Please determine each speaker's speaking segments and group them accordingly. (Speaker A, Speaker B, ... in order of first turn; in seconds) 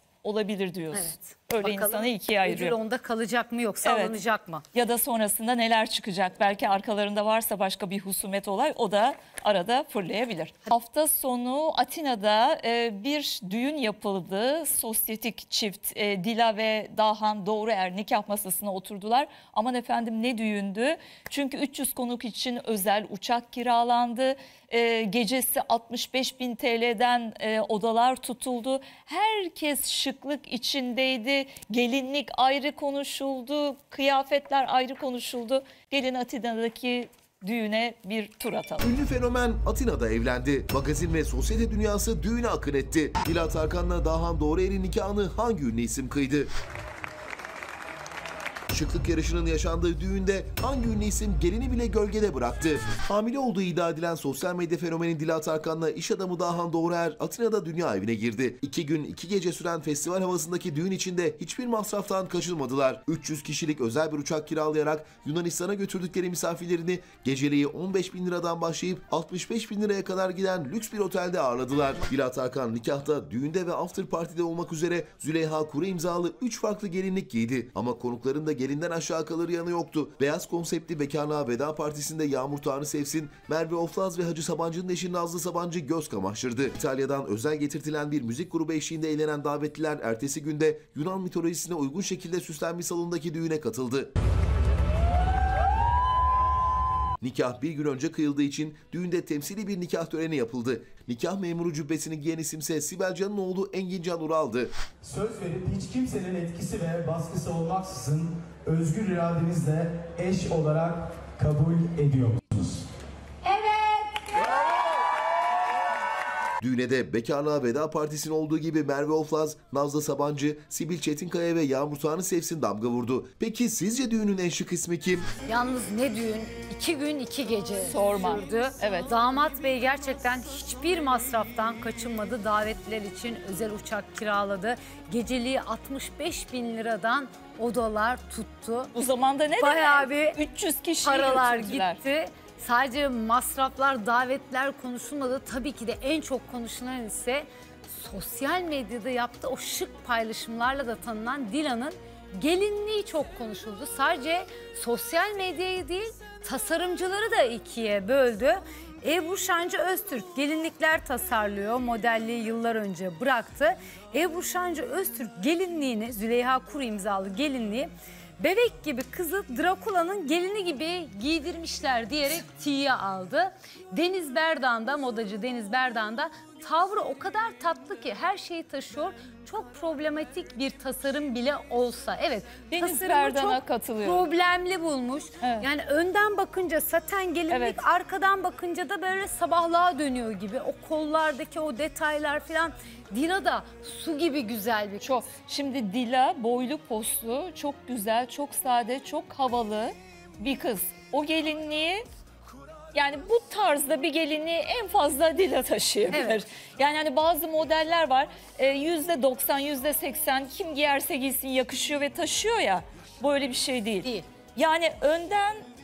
Speaker A: 0.2-2.8, 3.8-4.2, 4.7-38.9, 127.9-129.1, 138.9-142.0, 182.7-184.3, 187.5-187.8, 195.0-202.1, 202.9-215.6
Speaker B: 0.9-4.6, 113.4-114.5, 125.5-138.9, 139.6-140.4, 141.0-195.1, 206.1-206.4
Speaker C: 38.8-46.5, 48.7-94.1, 97.2-104.7, 116.6-125.3
Speaker D: 105.0-112.8